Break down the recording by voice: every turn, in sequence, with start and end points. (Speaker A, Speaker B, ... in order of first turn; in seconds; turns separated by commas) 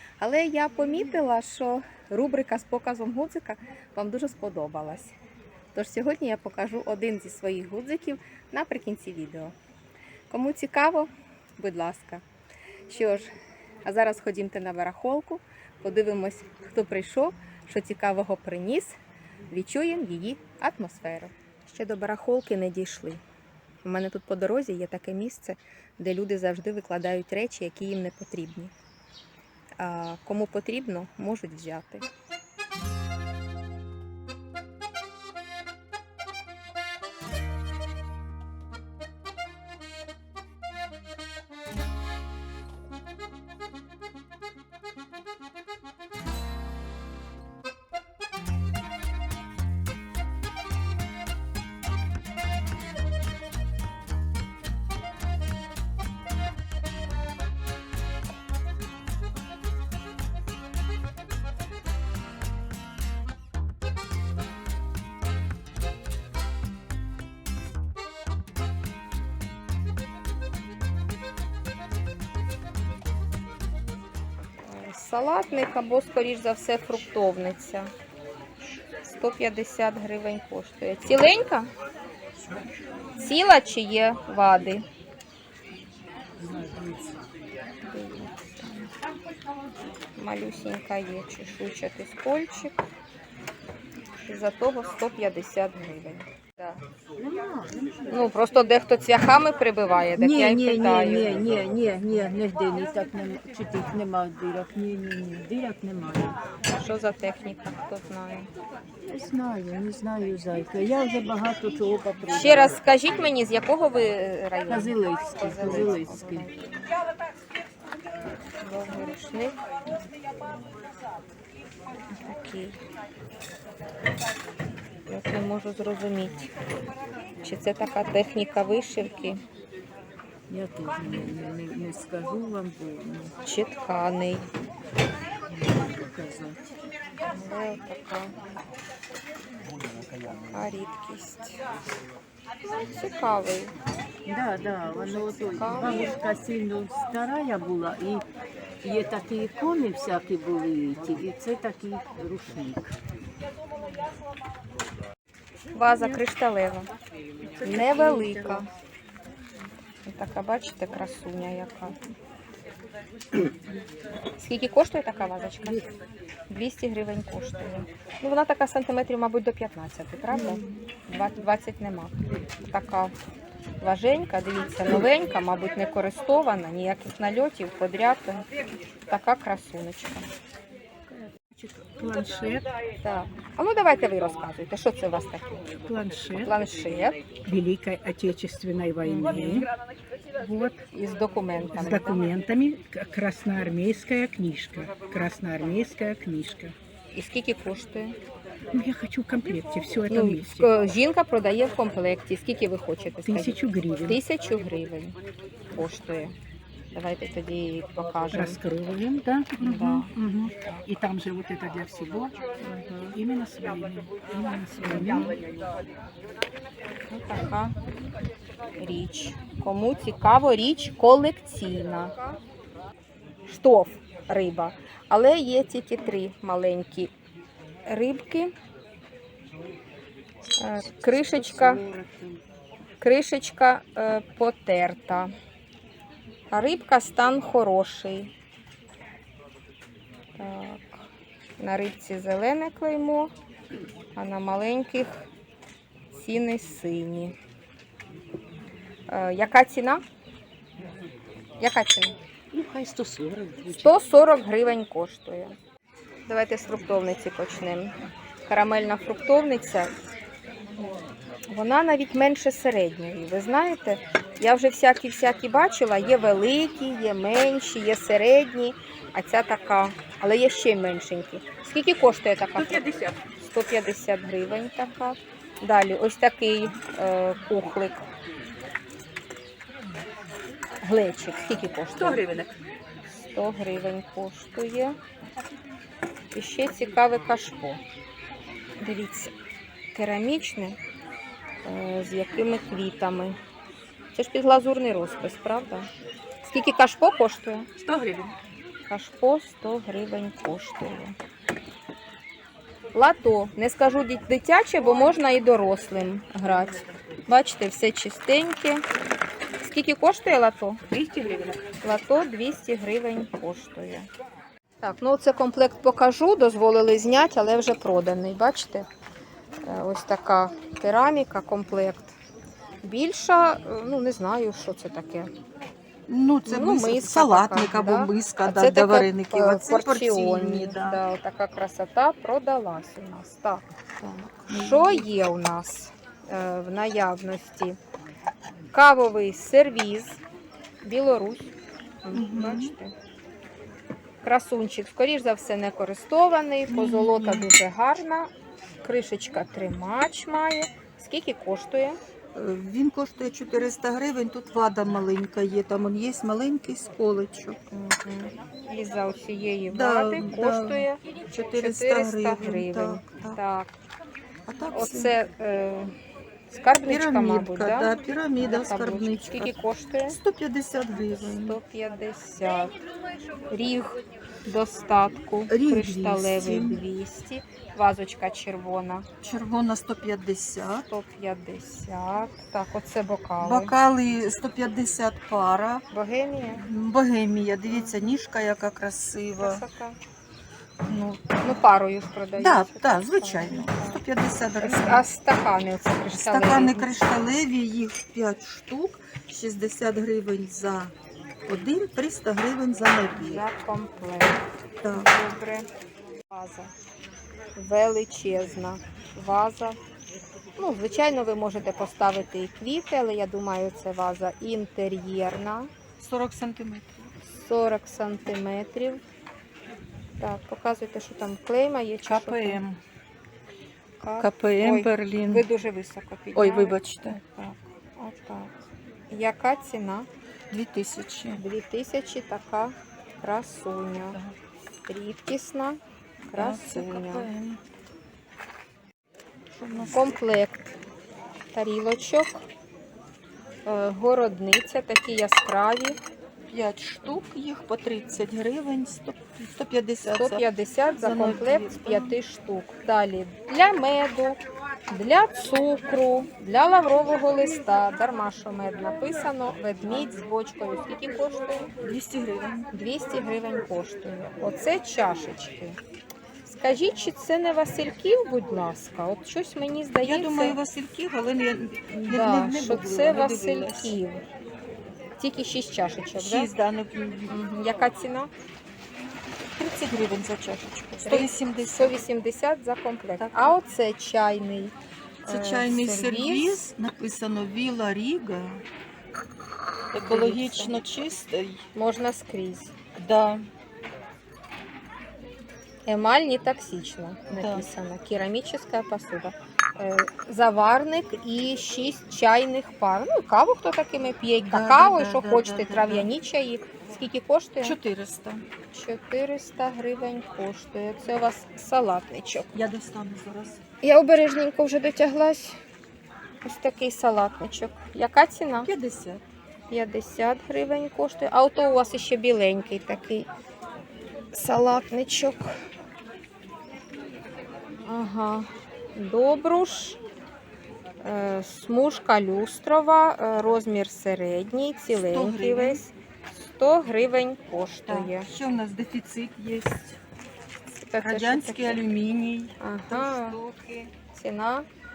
Speaker A: 0.2-5.2, Speaker A: 5.7-9.6, Speaker A: 10.3-12.2, Speaker A: 12.9-13.3, Speaker A: 13.8-19.0, Speaker A: 19.5-23.2, Speaker A: 23.8-28.7, Speaker A: 29.8-32.1, Speaker A: 74.6-77.9, Speaker A: 79.1-81.7, Speaker A: 83.2-84.9, Speaker B: 86.4-87.0, Speaker A: 87.8-88.9, Speaker A: 90.2-92.8, Speaker A: 94.2-96.8, Speaker B: 97.2-98.1, Speaker A: 98.1-101.4, Speaker B: 100.2-106.4, Speaker A: 106.7-108.5, Speaker B: 109.0-112.8, Speaker A: 112.3-116.9, Speaker B: 114.7-116.5, Speaker A: 118.6-119.6, Speaker A: 122.1-122.8, Speaker A: 125.1-126.5, Speaker A: 127.4-129.4, Speaker B: 130.5-133.3, Speaker A: 133.4-134.5, Speaker B: 135.7-136.6, Speaker A: 137.3-138.3, Speaker A: 140.5-141.6, Speaker A: 142.9-143.8, Speaker B: 144.3-148.3, Speaker A: 144.9-146.2, Speaker B: 148.8-153.0, Speaker A: 155.7-156.9, Speaker B: 157.6-158.7, Speaker A: 157.6-158.7, Speaker A: 160.1-162.0, Speaker A: 164.4-165.9, Speaker A: 166.5-173.1, Speaker A: 173.8-178.5, Speaker A: 179.1-180.3, Speaker C: 181.1-182.7, Speaker A: 183.0-185.8, Speaker C: 185.8-186.6, Speaker A: 186.4-187.2, Speaker C: 187.5-189.7, Speaker A: 189.0-189.7, Speaker C: 190.4-190.8, Speaker A: 190.9-192.3, Speaker C: 191.7-196.8, Speaker A: 197.1-198.2, Speaker C: 198.7-200.7, Speaker A: 200.1-205.2, Speaker C: 203.3-204.2, Speaker A: 205.7-206.3, Speaker A: 206.9-208.6, Speaker C: 208.3-212.4, Speaker A: 209.6-210.1, Speaker A: 212.6-213.2, Speaker C: 213.2-215.4, Speaker A: 214.8-215.4, Speaker A: 217.1-217.8, Speaker A: 218.8-222.4, Speaker A: 223.5-227.1, Speaker A: 227.9-228.6, Speaker A: 230.6-231.8, Speaker B: 231.0-232.4, Speaker A: 233.0-235.3, Speaker A: 236.5-238.3, Speaker A: 240.4-241.1, Speaker A: 241.6-243.3, Speaker A: 244.2-245.3, Speaker A: 246.1-247.4, Speaker A: 249.1-250.0, Speaker A: 251.6-252.2, Speaker C: 252.5-253.9, Speaker A: 253.7-255.6, Speaker A: 256.3-257.9, Speaker A: 258.5-260.0, Speaker A: 261.5-278.1, Speaker D: 272.6-273.1, Speaker A: 280.8-282.3, Speaker D: 282.0-282.6, Speaker A: 283.2-285.0, Speaker A: 286.3-287.8, Speaker A: 288.8-289.3, Speaker A: 289.9-290.8, Speaker A: 291.6-293.4, Speaker A: 294.1-295.9, Speaker A: 296.4-297.7, Speaker D: 297.8-298.4, Speaker A: 298.9-301.2, Speaker A: 302.9-308.8, Speaker A: 309.6-310.8, Speaker D: 310.9-311.6, Speaker A: 311.8-314.1, Speaker A: 314.8-318.9, Speaker A: 319.6-322.2, Speaker A: 322.8-325.3, Speaker D: 326.1-331.0, Speaker A: 326.4-333.7, Speaker D: 334.0-335.1, Speaker A: 334.5-337.8, Speaker A: 338.7-340.2, Speaker A: 340.8-341.5, Speaker A: 342.0-342.9, Speaker D: 342.1-342.7, Speaker A: 344.2-348.3, Speaker D: 346.7-347.5, Speaker A: 348.8-352.0, Speaker D: 352.4-357.6, Speaker A: 357.7-363.7, Speaker D: 359.7-363.4, Speaker D: 364.5-365.1, Speaker A: 364.7-365.9, Speaker A: 366.5-370.2, Speaker D: 366.9-369.5, Speaker D: 370.1-371.6, Speaker A: 371.1-372.8, Speaker A: 373.5-379.1, Speaker D: 375.5-376.8, Speaker D: 379.2-380.9, Speaker A: 380.9-383.7, Speaker D: 383.4-385.9, Speaker A: 385.9-386.6, Speaker D: 386.6-389.6, Speaker A: 387.7-388.0, Speaker A: 389.4-390.0, Speaker D: 390.9-391.4, Speaker A: 391.4-394.0, Speaker D: 392.4-395.1, Speaker A: 394.6-397.1, Speaker D: 396.1-400.9, Speaker D: 401.5-403.4, Speaker A: 403.2-405.7, Speaker D: 404.8-405.1, Speaker A: 406.3-406.7, Speaker A: 407.6-409.8, Speaker A: 410.6-415.7, Speaker D: 416.0-417.1, Speaker A: 417.3-419.0, Speaker A: 420.2-422.6, Speaker D: 422.1-422.8, Speaker A: 424.0-430.1, Speaker D: 424.2-425.5, Speaker D: 426.4-427.2, Speaker D: 430.5-431.4, Speaker A: 431.4-434.2, Speaker A: 434.9-435.8, Speaker D: 436.3-437.6, Speaker A: 436.3-437.3, Speaker D: 439.5-440.1, Speaker A: 439.9-440.8, Speaker A: 441.5-442.4, Speaker A: 443.7-446.0, Speaker D: 446.5-450.4, Speaker A: 450.0-461.7, Speaker D: 451.0-452.2, Speaker D: 461.8-462.7, Speaker A: 462.7-465.8, Speaker A: 466.5-470.6, Speaker D: 470.0-473.9, Speaker A: 471.9-474.2, Speaker A: 475.2-476.5, Speaker D: 476.2-477.4, Speaker A: 477.3-478.3, Speaker D: 479.6-482.0, Speaker A: 481.0-486.7, Speaker D: 483.2-483.6, Speaker D: 485.3-488.6, Speaker D: 489.9-491.7, Speaker A: 490.1-490.8, Speaker A: 491.8-492.7, Speaker D: 493.0-493.5, Speaker A: 495.9-507.8, Speaker D: 497.3-497.7, Speaker D: 504.4-506.1, Speaker D: 507.6-508.4, Speaker A: 508.7-512.5, Speaker D: 512.5-513.6, Speaker A: 513.8-515.6, Speaker A: 516.4-518.7, Speaker D: 518.6-519.2, Speaker A: 519.7-523.3, Speaker A: 524.3-525.5, Speaker A: 527.9-530.0, Speaker A: 531.0-538.3, Speaker D: 534.9-535.8, Speaker D: 537.9-540.0, Speaker A: 540.8-541.8, Speaker D: 541.0-543.9, Speaker A: 542.6-543.4, Speaker A: 544.1-544.7